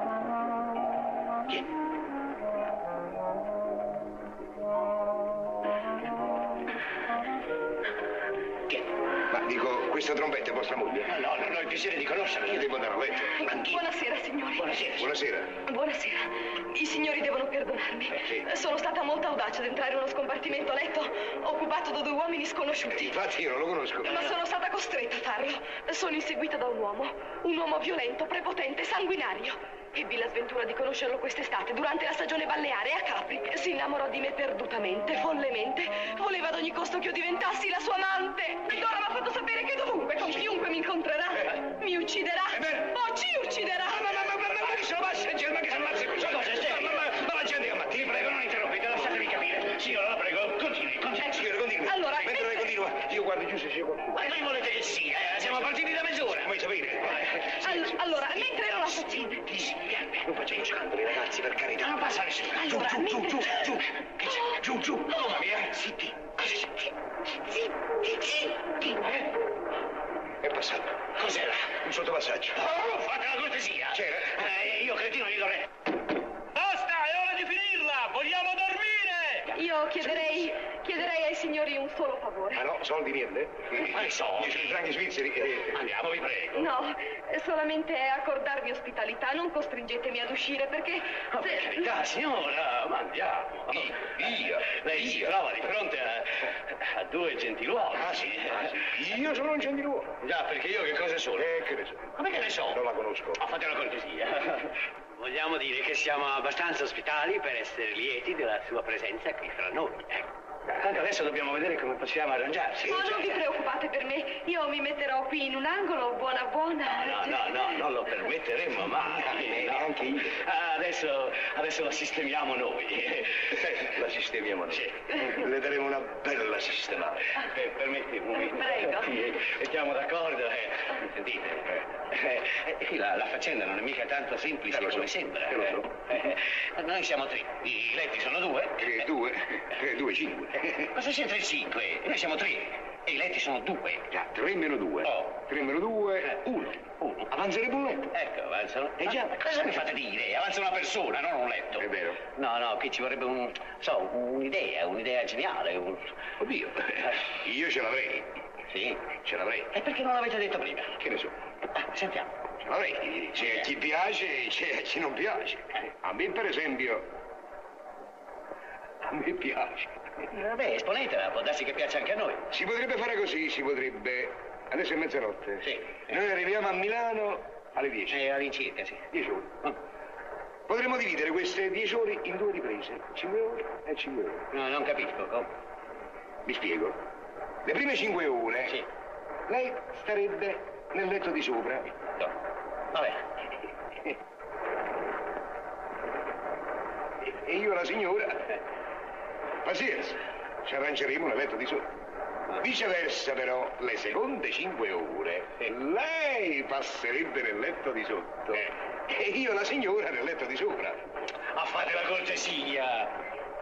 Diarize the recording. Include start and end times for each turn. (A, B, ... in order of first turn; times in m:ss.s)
0:09.3-0:11.1 A
0:11.0-0:12.8 B
0:12.4-0:13.8 A
0:13.4-0:14.8 C
0:14.6-0:15.1 B
0:14.9-0:15.6 A
0:15.7-0:23.2 C
0:18.2-0:18.4 A
0:23.0-0:24.3 A
0:24.0-0:44.5 C
0:42.5-0:43.0 A
0:44.0-0:48.2 A
0:45.7-0:51.6 B
0:51.2-0:54.4 A
0:51.8-0:52.7 C
0:54.2-0:56.6 B
0:56.3-0:57.8 A
0:57.2-0:57.5 B
0:57.5-0:59.6 C
0:59.6-1:02.0 A
0:59.7-1:00.1 B
1:01.8-1:03.9 B
1:02.6-1:03.6 C
1:02.6-1:06.3 A
1:04.6-1:05.8 B
1:10.4-1:11.0 A
1:11.2-1:11.8 B
1:11.7-1:12.7 A
1:12.5-1:15.7 B
1:13.9-1:14.4 A
1:16.6-1:19.5 B
1:19.5-1:22.6 C
1:22.5-1:25.8 A
1:23.7-1:24.8 B
1:25.5-1:26.7 B
1:26.6-1:31.9 C
1:31.3-1:38.8 B
1:33.7-1:35.4 A
1:37.9-1:40.1 A
1:40.2-1:41.6 B
1:41.4-1:43.4 A
1:42.1-1:42.8 B
1:43.4-1:53.3 B
1:52.8-1:57.6 C
1:56.9-2:04.0 B
1:59.3-2:00.3 A
2:03.7-2:07.4 A
2:04.7-2:05.3 B
2:07.4-2:19.1 B
2:08.4-2:09.1 C
2:14.7-2:15.9 A
2:18.8-2:20.9 A
2:20.7-2:24.1 B
2:24.1-2:28.1 A
2:25.0-2:25.4 B
2:27.0-2:27.3 B
2:28.1-2:36.1 B
2:29.0-2:29.7 A
2:31.8-2:32.2 A
2:36.4-2:38.3 A
2:38.7-2:39.0 B
2:39.2-2:39.7 A
2:39.7-2:41.0 B
2:41.0-2:41.3 A
2:41.7-2:42.3 B
2:42.6-2:47.0 A
2:49.0-2:49.9 A
2:50.3-2:52.4 B
2:52.5-2:58.2 A
2:55.6-2:56.0 B
2:58.1-2:59.0 B
2:59.1-2:59.5 A
3:00.7-3:04.5 A
3:04.5-3:05.5 B
3:06.4-3:07.0 A
3:07.6-3:08.8 A
3:09.5-3:11.9 A
3:12.9-3:13.2 B
3:17.2-3:18.6 A
3:19.6-3:21.9 A
3:22.6-3:31.0 A
3:31.5-3:33.1 B